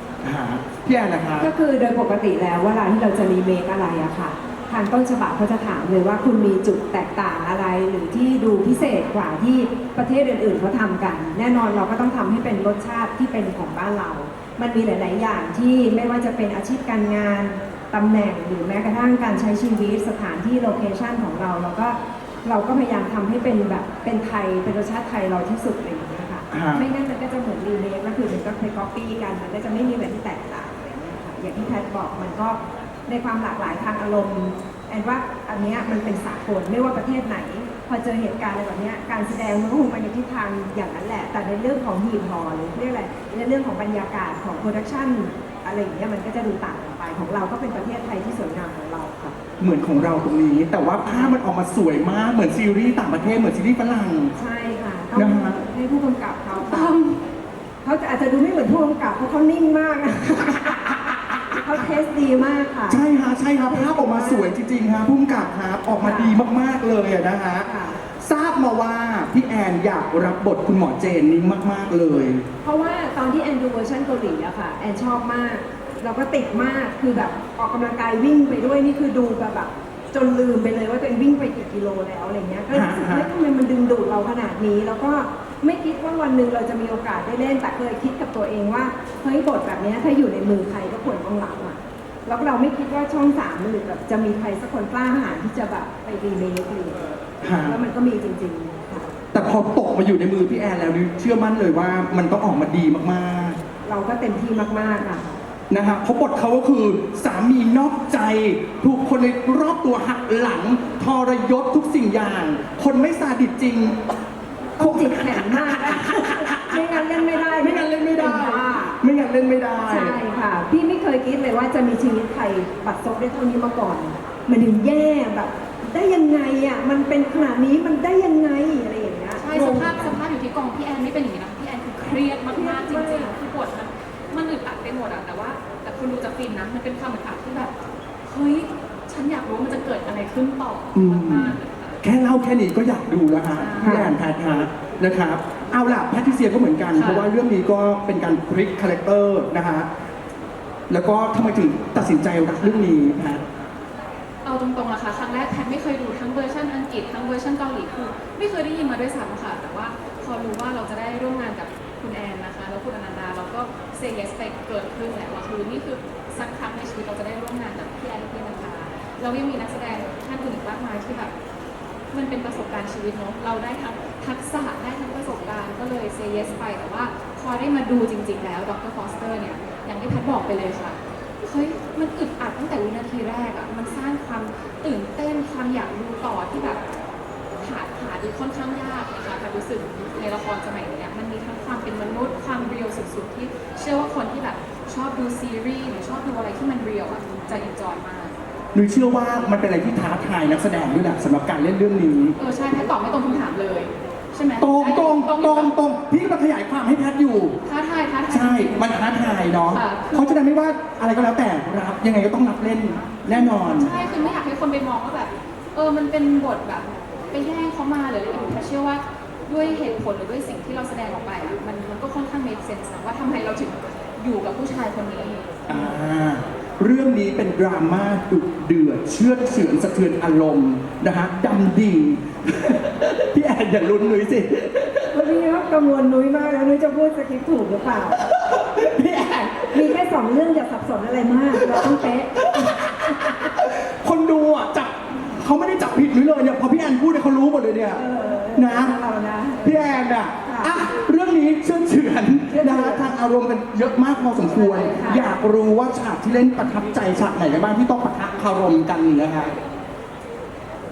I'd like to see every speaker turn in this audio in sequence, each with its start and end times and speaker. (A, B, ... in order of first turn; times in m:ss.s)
0:00.2-0:01.5 A
0:01.4-0:49.4 B
0:26.5-0:26.9 A
0:49.6-0:54.4 A
0:51.1-0:51.3 B
0:54.4-0:57.0 B
0:55.2-0:55.6 A
0:56.6-0:57.2 C
0:57.8-1:01.0 B
1:01.5-1:03.0 B
1:02.9-1:12.5 A
1:03.7-1:04.5 B
1:06.0-1:06.4 B
1:07.7-1:08.0 B
1:12.6-1:37.0 B
1:22.7-1:23.3 A
1:37.4-1:37.8 A
1:37.6-1:39.1 B
1:39.3-1:43.6 A
1:43.9-1:45.4 B
1:45.7-1:54.0 A
1:54.8-1:59.0 B
1:54.8-1:56.8 A
1:57.6-2:00.2 A
1:59.8-2:10.2 B
2:09.4-2:17.8 C
2:12.5-2:13.3 B
2:18.3-2:22.0 C
2:20.9-2:29.9 A
2:23.5-2:24.1 C
2:23.8-2:24.1 B
2:26.9-2:27.3 C
2:30.9-2:33.4 A
2:34.4-2:51.3 C
2:52.1-3:06.8 C
3:07.6-3:18.4 C
3:18.7-3:22.4 A
3:22.4-3:25.7 C
3:24.6-3:27.6 A
3:27.6-3:28.9 C
3:28.3-3:33.9 A
3:29.7-3:30.4 C
3:33.3-3:45.6 C
3:45.7-3:55.2 A
3:55.1-3:58.2 B
3:58.1-3:59.9 A
3:59.7-4:02.7 B
4:01.6-4:08.0 A
4:07.9-4:09.9 B
4:08.5-4:09.0 A
4:09.6-4:19.6 A
4:10.4-4:10.7 B
4:12.5-4:13.1 B
4:14.6-4:15.2 B